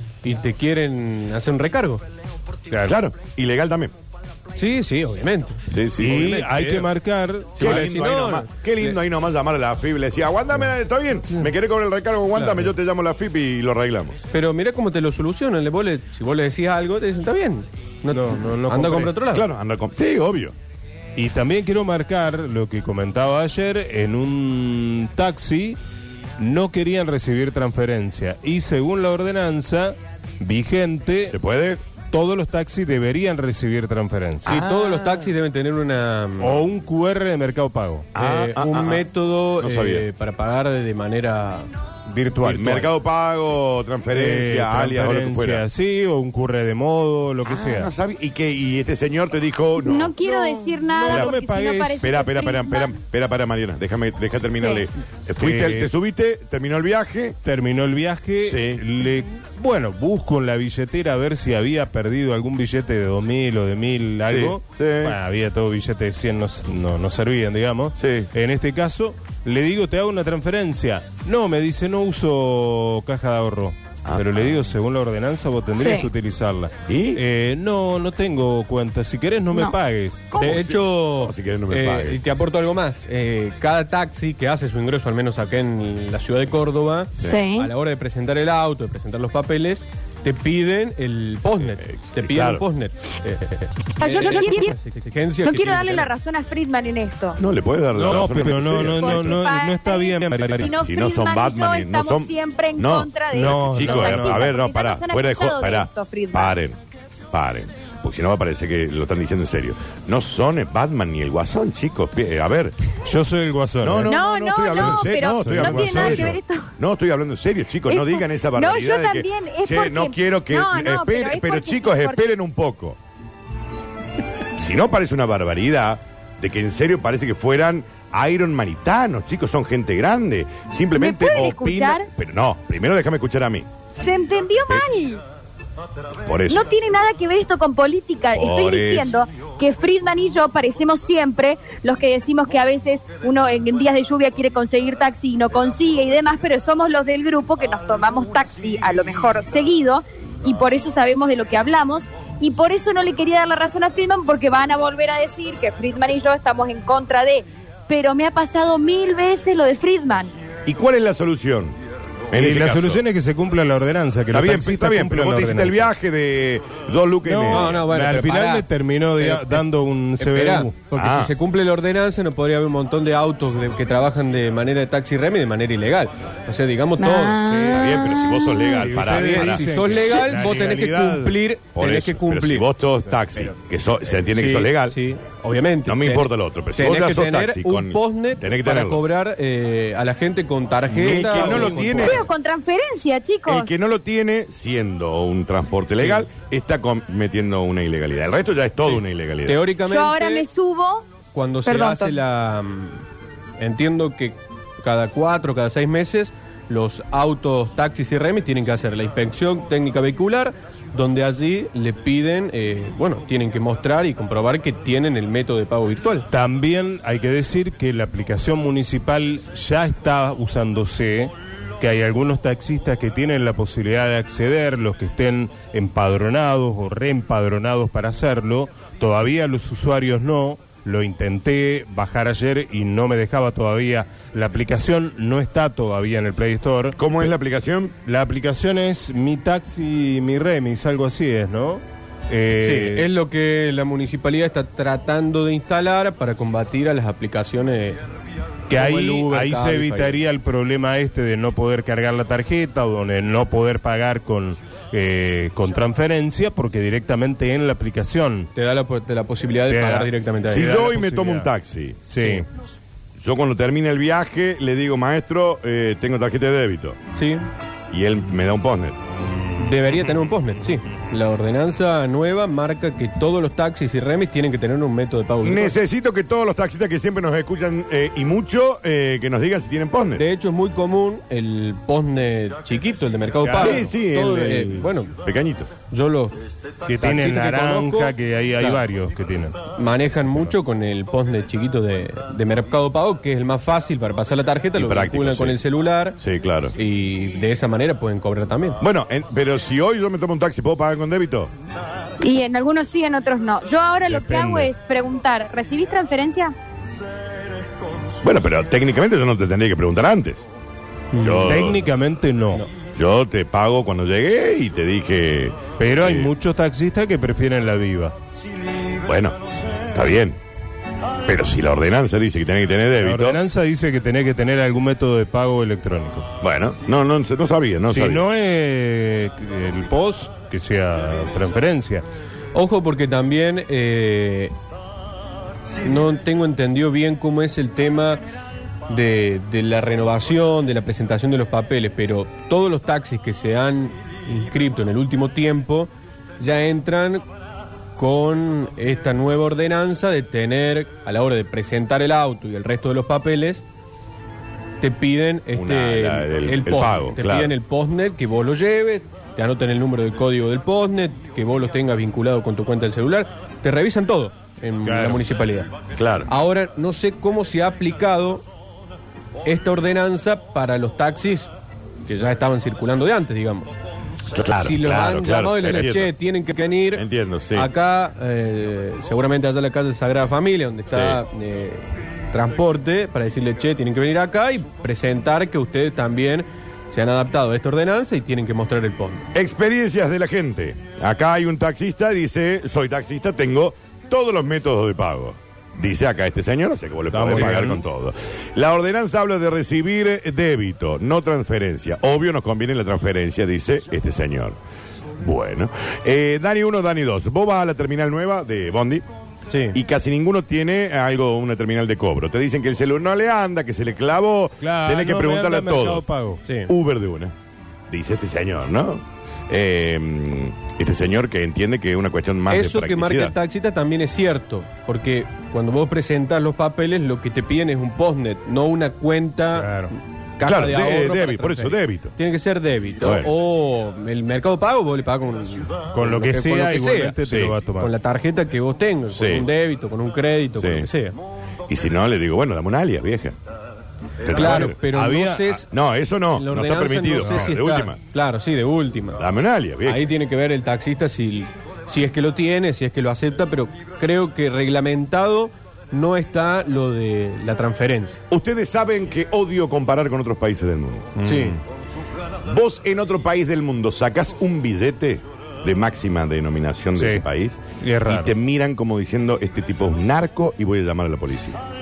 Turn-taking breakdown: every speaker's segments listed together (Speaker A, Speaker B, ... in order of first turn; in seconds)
Speaker A: 0.2-2.0, 4.5-6.9, 7.6-9.0, 14.3-19.5, 34.5-36.6, 38.2-41.7, 80.4-96.1, 167.5-168.7, 169.2-169.7, 170.2-177.4, 179.1-182.7, 184.3-192.3, 196.0-196.2, 199.5-200.4, 201.3-203.0, 203.6-216.3, 242.6-248.0, 248.7-250.2, 258.6-260.8, 262.2-262.4, 267.1-267.4, 269.6-275.8, 280.2-285.1, 285.9-286.4, 287.0-288.8, 289.8-296.2, 296.8-298.8, 311.1-311.5, 332.5-334.5, 335.8-338.2, 338.9-347.2, 348.0-353.6, 354.8-365.7, 366.3-368.5, 369.4-371.5, 372.1-373.7, 374.6-389.3, 409.5-409.8, 416.4-416.7, 422.5-429.7, 430.4-437.2, 437.8-441.2, 444.3-445.7, 446.3-449.2, 449.9-458.2, 461.2-461.6
Speaker B: 2.7-3.0, 6.0-7.9, 18.1-19.2, 21.2-25.8, 26.4-31.4, 32.0-34.5, 36.4-38.1, 42.1-42.9, 44.1-47.9, 50.2-52.1, 55.4-55.9, 57.4-80.3, 98.0-100.8, 103.3-104.5, 113.0-116.4, 162.3-165.9, 167.3-170.7, 177.4-178.0, 178.8-181.4, 190.9-192.0, 216.3-237.1, 238.1-243.1, 248.7-258.5, 259.7-261.5, 262.1-262.4, 283.4-283.9, 286.9-289.6, 304.1-304.7, 311.4-312.6, 315.8-318.1, 323.0-326.3, 327.9-332.1, 364.8-365.3, 397.1-397.8, 414.6-416.4, 429.6-429.9, 435.9-437.9, 444.3-445.6, 447.2-447.6, 461.2-461.6, 467.0-467.2, 467.8-468.3
Speaker C: 2.9-3.9, 5.7-6.4, 7.6-14.2, 19.3-20.5, 31.3-31.8, 34.5-35.3, 38.1-39.1, 39.6-40.1, 42.4-45.6, 47.5-50.1, 51.1-51.4, 52.0-57.4, 58.4-58.8, 64.3-65.2, 68.0-68.3, 74.0-74.7, 76.9-77.2, 80.3-82.2, 87.2-87.5, 91.6-92.6, 97.4-99.4, 100.6-106.8, 107.3-112.8, 113.8-123.0, 124.6-133.7, 136.3-136.7, 138.3-139.2, 160.7-161.8, 162.3-163.0, 164.3-167.7, 170.9-171.3, 177.7-180.2, 181.8-185.0, 185.9-189.0, 190.9-192.2, 193.5-199.6, 237.0-237.9, 260.5-262.1, 263.2-267.0, 267.9-269.0, 275.4-280.3, 283.5-285.7, 294.8-295.6, 296.2-296.8, 298.8-301.5, 308.2-310.4, 311.2-311.9, 312.9-316.3, 319.0-320.4, 321.3-323.4, 326.4-328.2, 355.5-357.5, 365.9-366.3, 374.3-376.1, 376.9-377.7, 380.9-381.2, 389.3-404.6, 405.2-409.1, 409.7-416.0, 416.7-417.3, 417.9-423.3, 430.4-432.1, 433.0-433.3, 437.2-437.6, 439.1-439.5, 440.6-440.9, 441.7-443.4, 444.2-444.8, 445.6-448.0, 449.2-450.1, 458.3-461.2, 462.4-471.6
Speaker D: 49.8-52.9, 75.8-76.1, 87.2-87.7, 94.0-94.8, 95.4-97.4, 98.4-106.5, 114.0-116.7, 117.9-122.3, 131.0-132.1, 134.0-135.2, 136.5-160.3, 177.0-178.8, 192.0-193.7, 199.9-201.1, 201.7-202.2, 302.2-306.5